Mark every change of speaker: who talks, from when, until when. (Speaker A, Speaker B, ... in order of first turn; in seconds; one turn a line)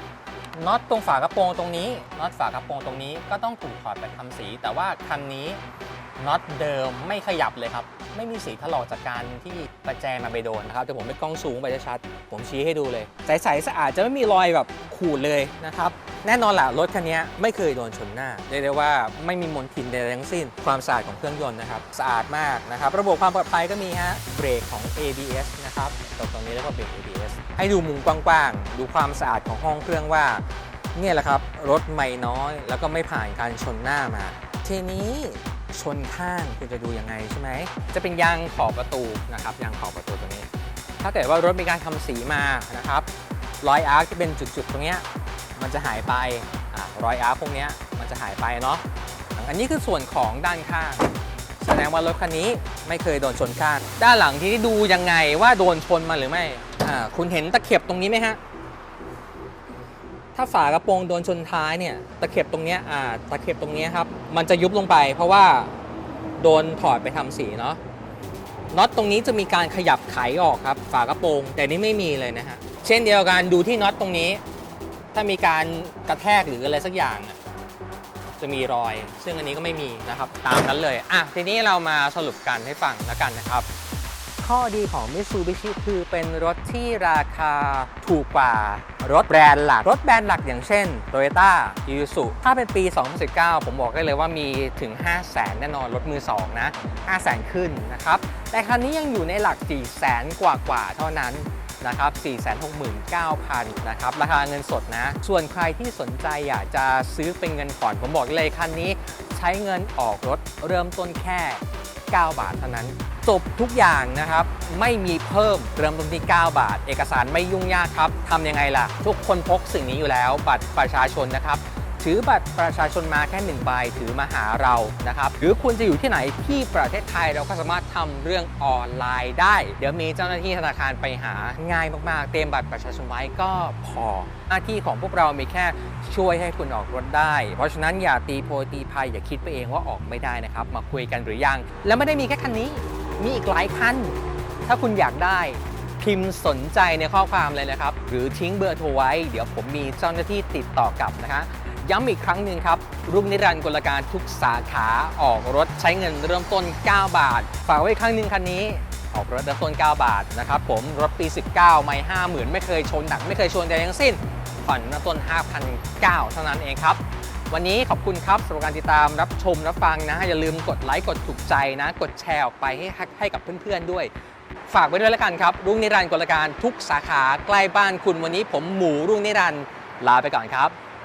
Speaker A: 0.5-5.6
Speaker A: 6.2-30.4
Speaker A: 30.9-43.1
Speaker A: 43.6-45.0
Speaker A: 45.6-48.8
Speaker A: 49.4-51.0
Speaker A: 51.6-58.4
Speaker A: 60.4-65.7
Speaker A: 66.4-67.8
Speaker A: 68.7-74.4
Speaker A: 75.1-77.4
Speaker A: 78.4-83.7
Speaker A: 84.4-174.1
Speaker A: 174.7-180.8